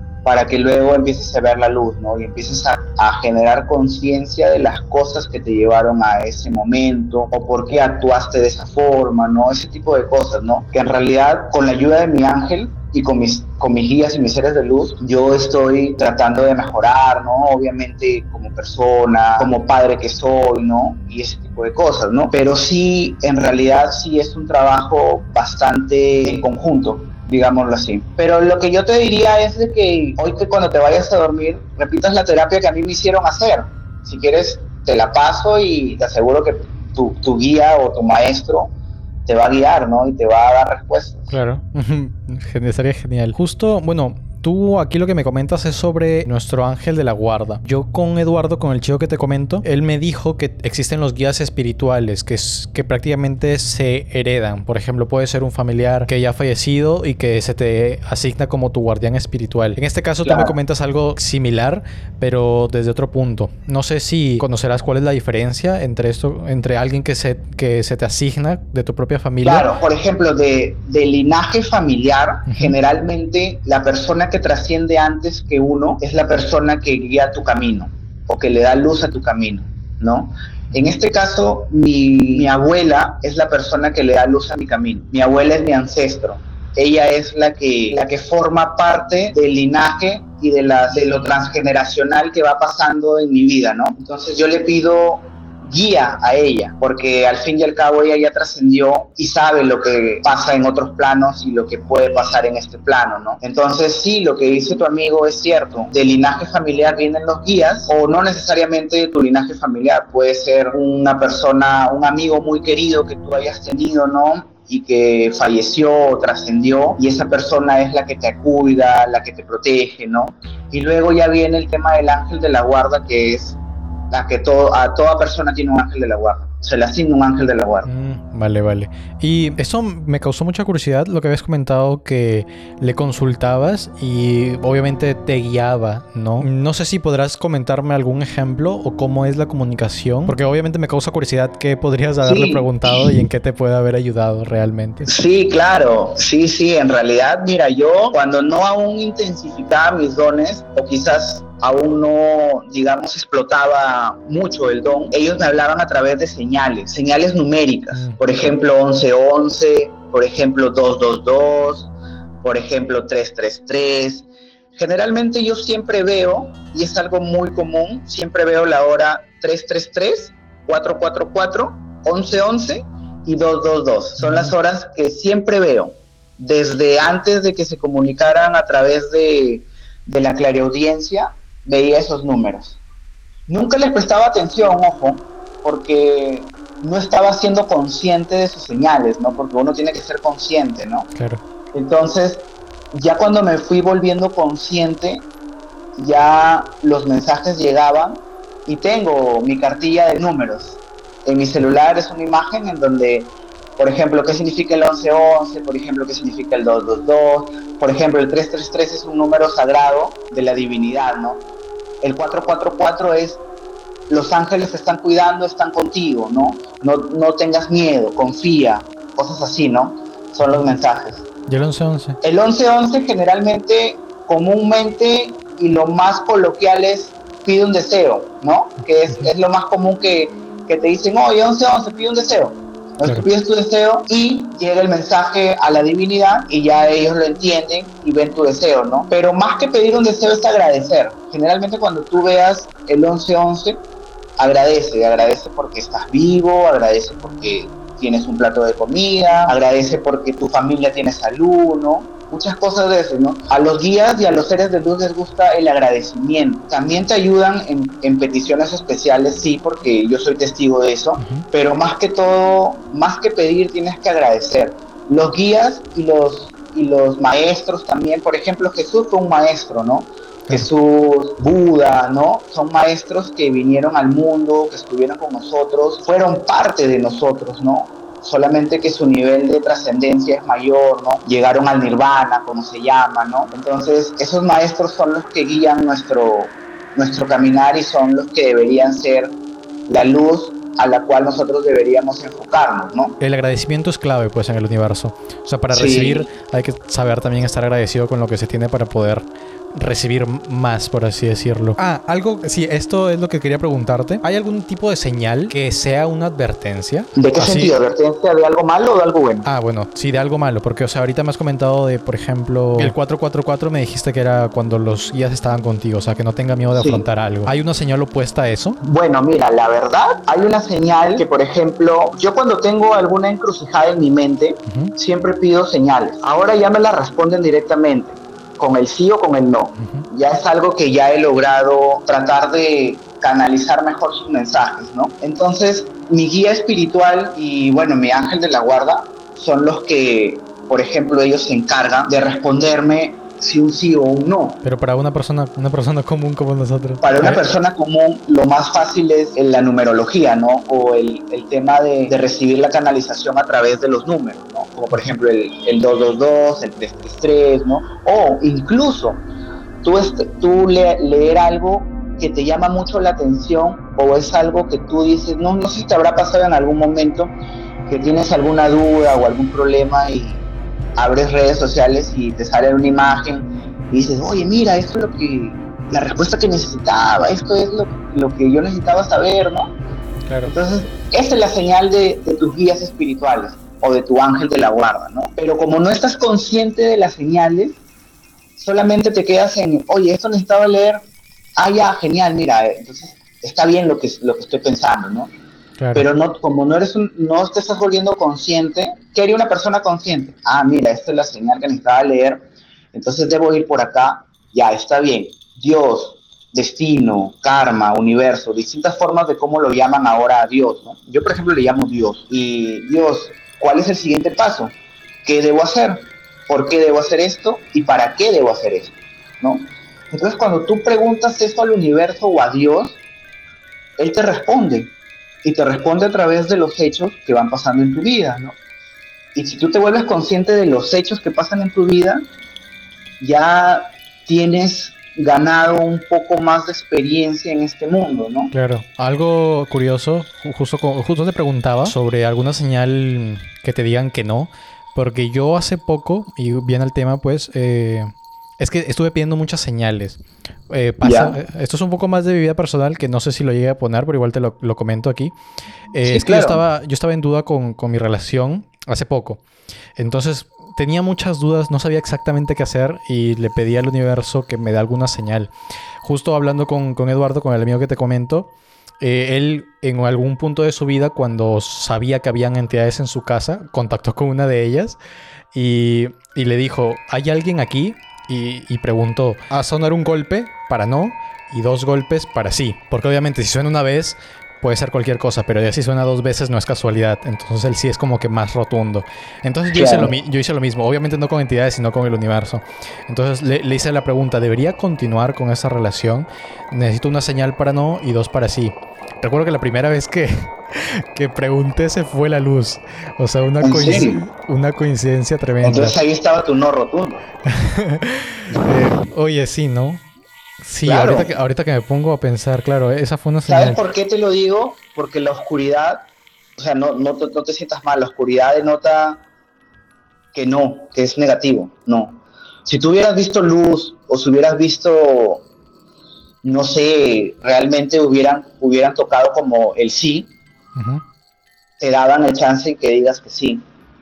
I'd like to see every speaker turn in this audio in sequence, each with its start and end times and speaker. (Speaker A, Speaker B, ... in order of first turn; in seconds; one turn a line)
Speaker A: 0.2-38.7
Speaker A: 39.2-41.4
Speaker B: 41.3-69.7
Speaker A: 60.2-60.5
Speaker A: 69.4-123.6
Speaker B: 72.5-72.7
Speaker A: 124.1-127.9
Speaker B: 127.8-145.1
Speaker A: 142.2-143.2
Speaker A: 145.0-161.9
Speaker B: 157.9-158.2
Speaker A: 162.4-182.8
Speaker B: 174.2-174.5
Speaker A: 183.5-191.1
Speaker B: 191.1-191.4
Speaker A: 191.7-195.2
Speaker A: 196.0-211.4
Speaker A: 212.0-213.4
Speaker A: 214.1-221.3
Speaker B: 221.5-222.2
Speaker A: 222.2-243.8
Speaker A: 244.4-289.3
Speaker A: 289.9-293.1
Speaker B: 293.2-307.8
Speaker A: 295.7-296.3
Speaker A: 307.1-309.5
Speaker B: 309.4-318.8
Speaker A: 316.7-317.0
Speaker A: 318.8-344.6
Speaker B: 324.7-324.9
Speaker B: 329.8-330.0
Speaker B: 344.6-347.4
Speaker A: 347.0-359.2
Speaker A: 359.8-367.3
Speaker A: 367.9-370.4
Speaker A: 371.0-379.7
Speaker B: 380.3-380.5
Speaker A: 380.4-387.8
Speaker A: 388.6-391.0
Speaker A: 391.6-395.3
Speaker B: 395.8-396.1
Speaker A: 395.9-402.4
Speaker A: 402.9-423.0
Speaker A: 424.0-424.9
Speaker A: 425.4-428.6
Speaker A: 429.3-432.2
Speaker A: 433.2-438.5
Speaker B: 438.5-455.3
Speaker A: 451.0-451.4
Speaker B: 455.9-459.4
Speaker A: 456.1-456.6
Speaker B: 459.9-468.5
Speaker B: 469.0-475.0
Speaker B: 475.5-505.9
Speaker A: 489.7-490.1
Speaker A: 503.6-504.2
Speaker A: 505.6-507.2
Speaker B: 507.4-510.0
Speaker B: 510.6-513.8
Speaker A: 510.8-511.3
Speaker A: 513.5-516.0
Speaker A: 516.6-519.2
Speaker A: 520.3-525.4
Speaker A: 526.4-530.3
Speaker B: 530.8-531.0
Speaker A: 531.8-533.6